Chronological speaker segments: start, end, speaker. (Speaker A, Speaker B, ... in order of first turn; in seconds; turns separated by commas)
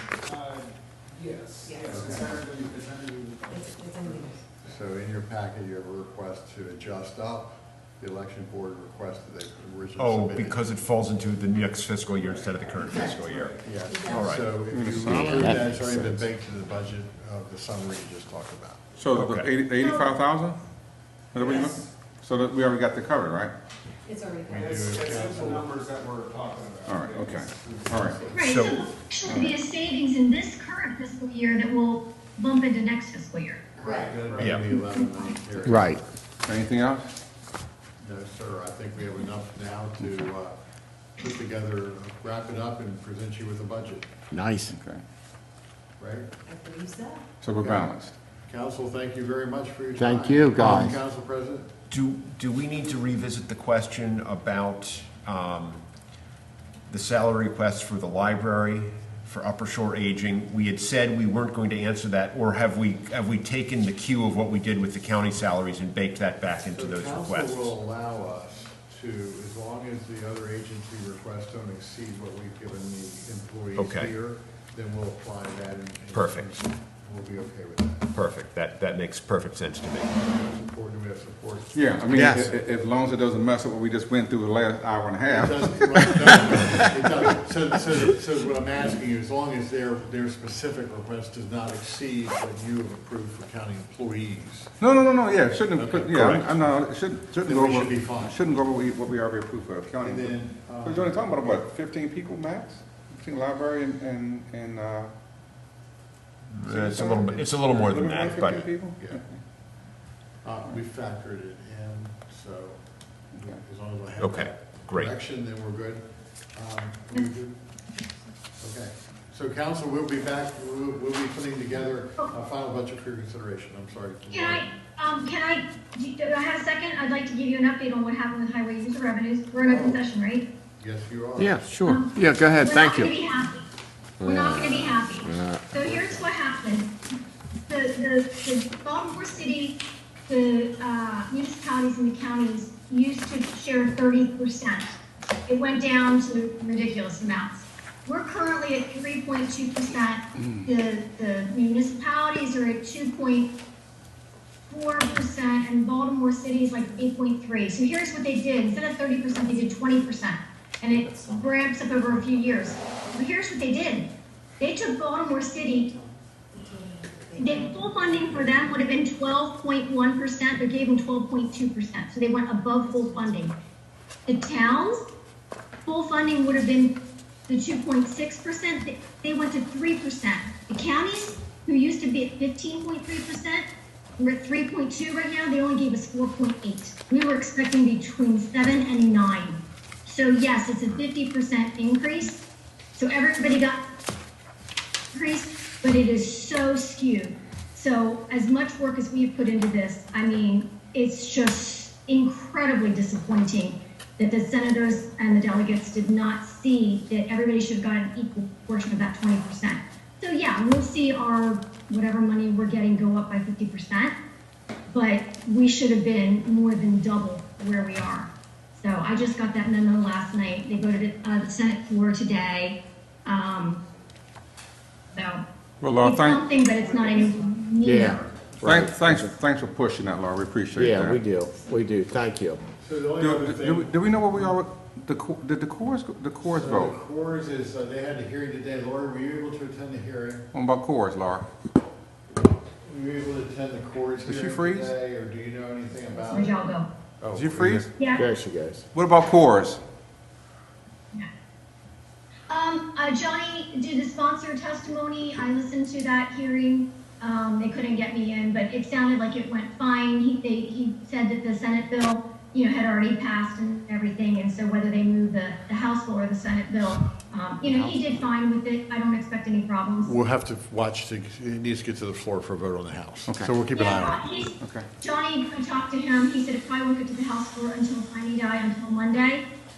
Speaker A: 0.2-3.7, Speaker B: 1.6-2.4, Speaker B: 3.5-4.5, Speaker C: 4.6-10.6, Speaker D: 10.0-14.5, Speaker A: 12.3-12.7, Speaker B: 12.8-14.4, Speaker A: 13.3-13.6, Speaker C: 13.6-18.8, Speaker E: 14.7-15.5, Speaker F: 15.0-16.3, Speaker E: 19.0-20.6, Speaker D: 19.1-19.5, Speaker G: 19.8-20.1, Speaker E: 21.3-23.5, Speaker B: 21.4-21.8, Speaker B: 24.1-24.7, Speaker C: 24.5-25.7, Speaker A: 24.6-28.4, Speaker E: 26.9-28.3, Speaker G: 28.3-33.6, Speaker D: 28.4-28.9, Speaker E: 29.3-29.6, Speaker C: 33.8-36.0, Speaker B: 33.8-34.2, Speaker A: 33.8-34.6, Speaker D: 34.4-34.7, Speaker G: 34.8-35.4, Speaker F: 35.6-36.0, Speaker E: 36.5-37.1, Speaker C: 38.0-40.6, Speaker C: 41.2-44.1, Speaker F: 44.3-44.8, Speaker E: 44.7-45.0, Speaker C: 46.0-46.3, Speaker B: 46.5-47.2, Speaker E: 47.4-48.1, Speaker C: 47.6-47.9, Speaker C: 48.5-51.7, Speaker F: 50.0-51.0, Speaker D: 51.9-55.8, Speaker D: 56.9-67.7, Speaker C: 66.7-78.1, Speaker D: 73.8-74.1, Speaker D: 76.1-76.5, Speaker D: 78.1-80.1, Speaker C: 80.1-82.5, Speaker E: 81.7-86.8, Speaker F: 82.1-82.5, Speaker C: 85.3-94.7, Speaker E: 94.8-105.1, Speaker C: 95.7-96.8, Speaker D: 96.1-96.4, Speaker C: 97.4-98.4, Speaker C: 100.0-101.6, Speaker D: 106.5-108.7, Speaker E: 106.7-109.4, Speaker C: 106.9-109.2, Speaker C: 110.4-112.8, Speaker C: 113.3-117.6, Speaker D: 114.2-115.1, Speaker C: 118.6-124.7, Speaker G: 124.3-130.5, Speaker C: 129.7-130.0, Speaker C: 130.8-131.6, Speaker F: 131.4-133.1, Speaker G: 131.8-133.7, Speaker F: 134.2-136.2, Speaker G: 134.2-136.9, Speaker G: 137.7-153.5, Speaker G: 154.7-165.9, Speaker B: 165.9-168.8, Speaker G: 167.4-173.6, Speaker B: 172.8-173.5, Speaker G: 174.3-175.1, Speaker G: 175.9-183.7, Speaker G: 184.2-193.8, Speaker G: 195.1-214.2, Speaker G: 214.9-223.8, Speaker G: 225.1-225.4, Speaker E: 225.8-226.4, Speaker G: 226.0-228.2, Speaker F: 227.8-229.3, Speaker E: 228.6-231.2, Speaker F: 230.8-232.6, Speaker C: 232.8-233.9, Speaker E: 233.2-237.0, Speaker C: 236.5-240.5, Speaker E: 240.5-241.5, Speaker C: 242.8-246.6, Speaker E: 244.2-244.9, Speaker G: 246.3-246.9, Speaker C: 247.2-247.8, Speaker E: 247.3-247.9, Speaker F: 247.8-248.8, Speaker G: 248.0-248.3, Speaker E: 248.9-249.8, Speaker G: 252.5-270.1, Speaker F: 267.7-267.9, Speaker C: 270.0-274.2, Speaker E: 273.3-273.5, Speaker G: 273.7-279.5, Speaker E: 274.6-274.9